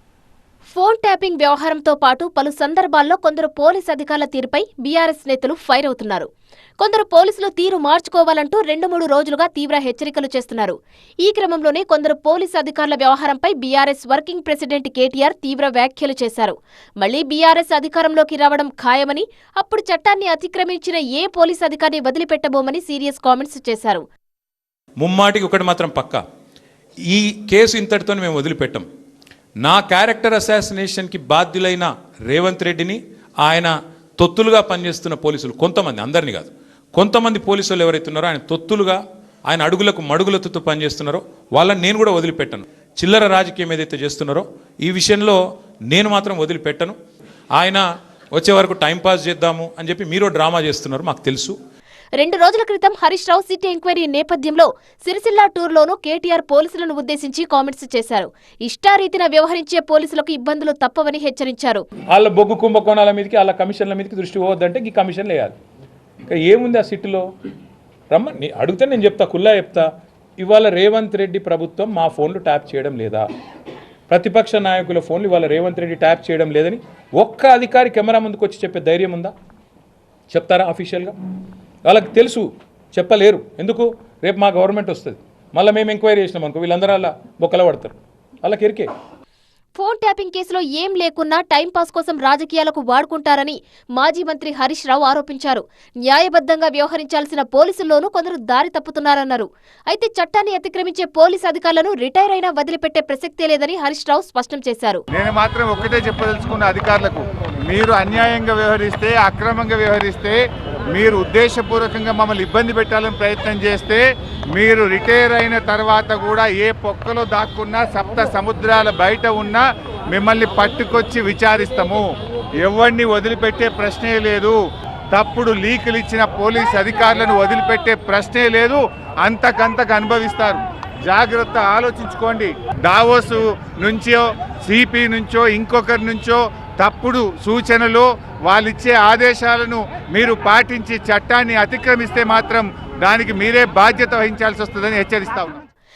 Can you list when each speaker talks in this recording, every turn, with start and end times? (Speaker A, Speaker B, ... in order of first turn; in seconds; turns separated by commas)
Speaker A: 0.7-6.3, Speaker A: 6.8-24.0, Speaker B: 25.0-26.2, Speaker B: 27.1-28.9, Speaker B: 29.6-47.0, Speaker B: 47.6-51.6, Speaker A: 52.2-61.9, Speaker B: 62.1-65.6, Speaker B: 66.2-67.3, Speaker B: 68.1-69.9, Speaker B: 70.4-73.3, Speaker B: 74.1-79.3, Speaker B: 80.3-81.2, Speaker B: 81.9-88.9, Speaker A: 89.8-105.0, Speaker C: 105.1-110.4, Speaker C: 110.9-114.0, Speaker C: 114.6-122.0, Speaker C: 122.6-124.6, Speaker C: 125.1-145.6